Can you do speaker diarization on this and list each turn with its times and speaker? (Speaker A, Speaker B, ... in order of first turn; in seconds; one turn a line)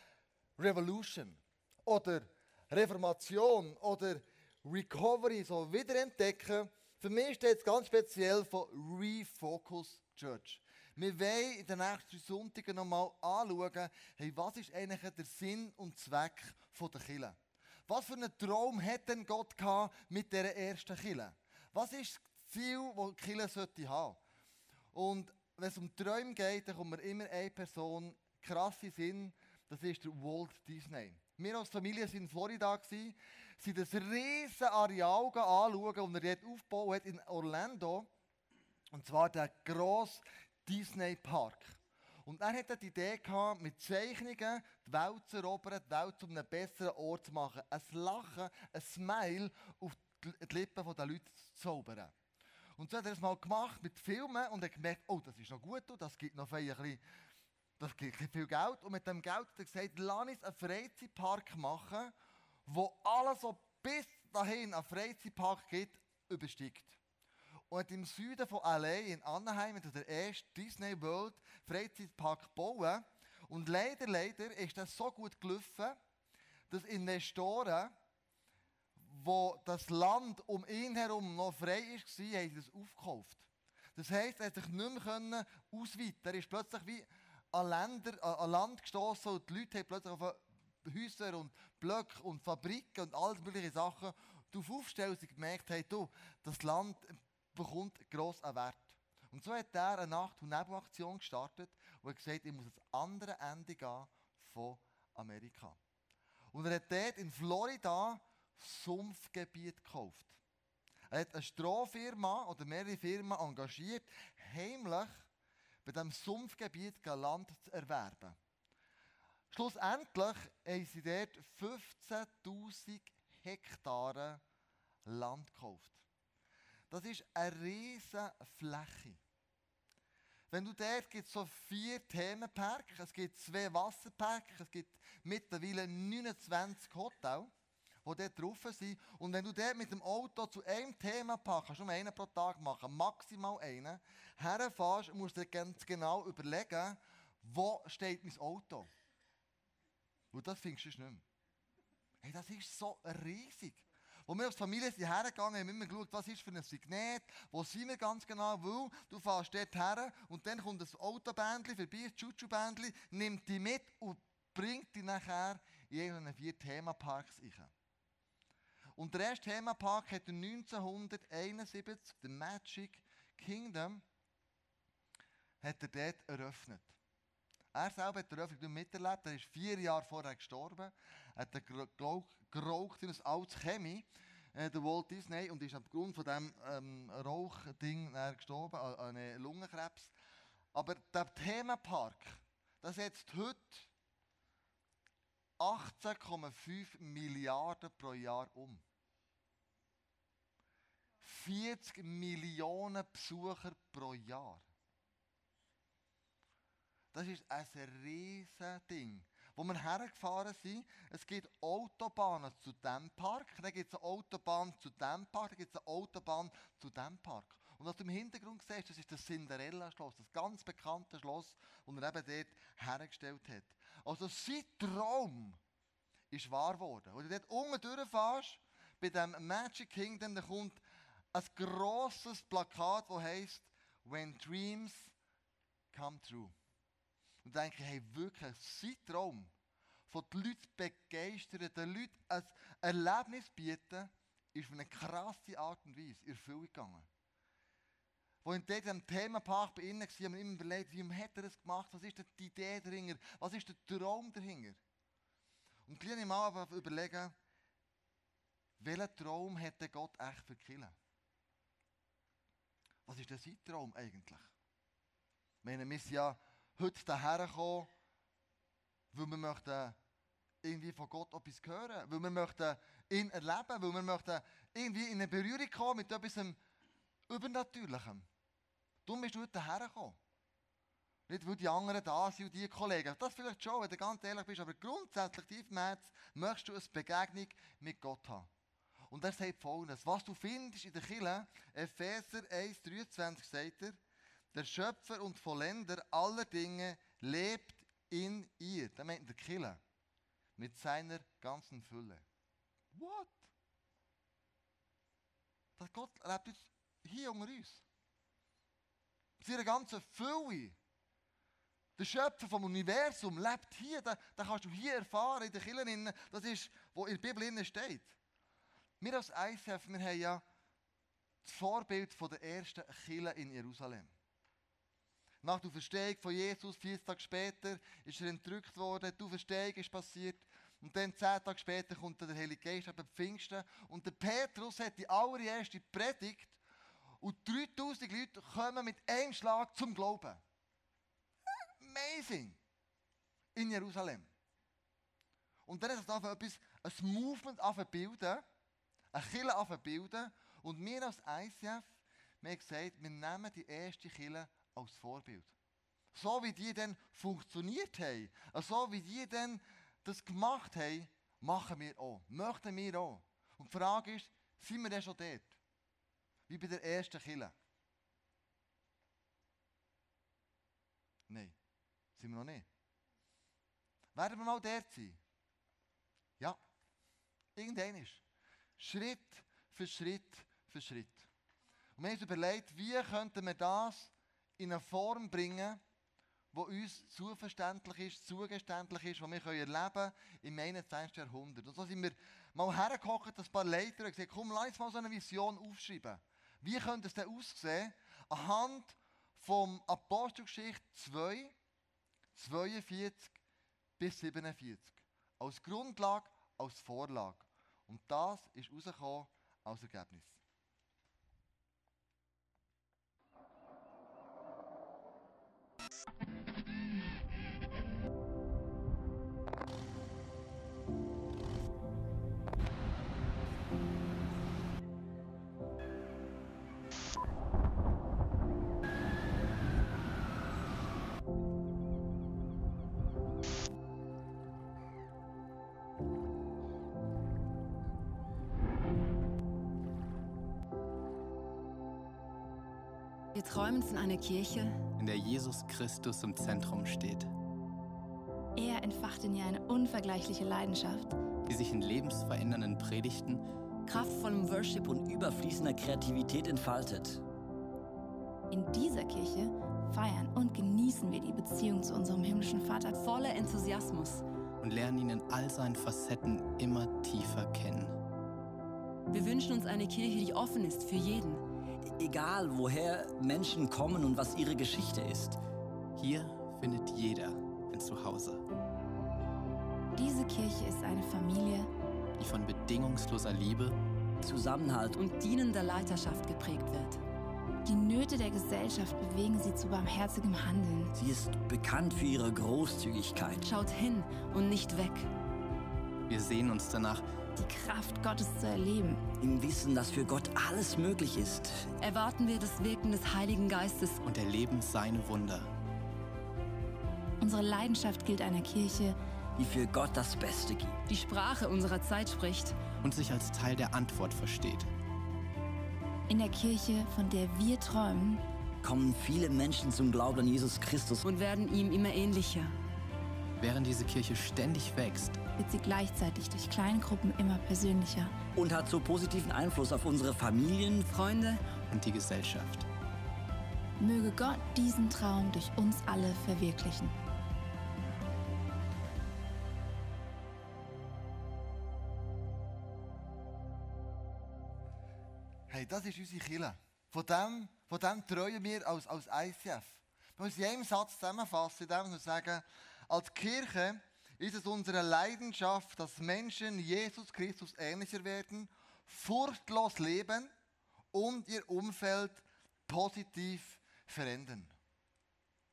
Speaker A: 0.6-24.2
Speaker A: 24.9-38.1
Speaker A: 38.9-52.1
Speaker A: 52.8-57.0
Speaker A: 57.8-62.1
Speaker A: 62.6-67.0
Speaker A: 67.7-76.0
Speaker A: 76.7-78.0
Speaker A: 79.0-105.8
Speaker A: 106.5-110.4
Speaker A: 111.1-115.3
Speaker A: 115.8-118.4
Speaker A: 119.5-124.4
Speaker A: 125.0-126.0
Speaker A: 126.9-129.2
Speaker A: 130.5-137.5
Speaker A: 138.0-148.9
Speaker A: 150.3-151.2
Speaker A: 152.2-167.7
Speaker A: 168.9-174.0
Speaker A: 175.6-176.9
Speaker A: 177.7-190.1
Speaker A: 190.7-193.9
Speaker A: 195.6-198.8
Speaker A: 201.2-204.7
Speaker A: 207.1-225.6
Speaker A: 226.3-230.8
Speaker A: 231.3-235.1
Speaker A: 235.9-236.5
Speaker A: 237.4-239.5
Speaker A: 240.1-247.1
Speaker A: 248.4-254.8
Speaker A: 255.8-257.4
Speaker A: 258.8-260.9
Speaker A: 263.1-264.5
Speaker A: 265.6-267.9
Speaker A: 269.1-270.0
Speaker A: 270.6-276.6
Speaker A: 277.3-278.3
Speaker A: 279.1-280.2
Speaker A: 281.3-288.5
Speaker A: 289.1-294.0
Speaker A: 294.5-299.8
Speaker A: 300.6-302.2
Speaker A: 302.9-303.5
Speaker A: 305.8-307.8
Speaker A: 309.4-310.8
Speaker A: 312.0-318.1
Speaker A: 319.0-320.4
Speaker A: 321.4-324.1
Speaker A: 325.4-336.6
Speaker A: 337.2-340.4
Speaker A: 341.8-342.6
Speaker A: 343.5-344.3
Speaker A: 345.6-348.4
Speaker A: 349.1-355.5
Speaker A: 356.1-365.6
Speaker A: 366.5-367.5
Speaker A: 371.3-371.6
Speaker A: 372.1-372.7
Speaker A: 374.1-375.2
Speaker A: 377.6-378.2
Speaker A: 378.8-381.3
Speaker A: 381.9-385.8
Speaker A: 386.5-401.5
Speaker A: 402.3-403.4
Speaker A: 404.0-410.4
Speaker B: 443.3-444.8
Speaker C: 445.0-447.3
Speaker D: 448.6-451.2
Speaker C: 451.4-453.4
Speaker B: 453.9-454.5
Speaker E: 454.4-457.2
Speaker D: 458.5-462.9
Speaker B: 463.0-464.2
Speaker C: 464.6-467.9
Speaker B: 469.1-471.4
Speaker E: 472.0-475.4
Speaker C: 475.9-478.4
Speaker D: 479.9-481.7
Speaker C: 482.2-483.8
Speaker E: 484.2-484.9
Speaker B: 484.9-487.0
Speaker D: 487.6-490.9
Speaker E: 490.9-493.4
Speaker B: 493.4-495.1
Speaker C: 496.1-497.0
Speaker D: 497.4-499.0
Speaker E: 499.2-501.7
Speaker B: 501.8-504.0
Speaker C: 504.0-505.5
Speaker D: 507.2-509.0
Speaker E: 509.4-510.8
Speaker B: 510.9-512.6
Speaker C: 512.8-514.7
Speaker D: 516.1-518.2
Speaker E: 518.6-521.0
Speaker B: 521.0-522.5
Speaker C: 523.4-525.2
Speaker D: 525.4-528.1
Speaker E: 528.3-530.9
Speaker B: 530.9-531.4
Speaker C: 531.7-532.6
Speaker D: 533.8-536.9
Speaker A: 545.5-560.3
Speaker A: 560.9-564.5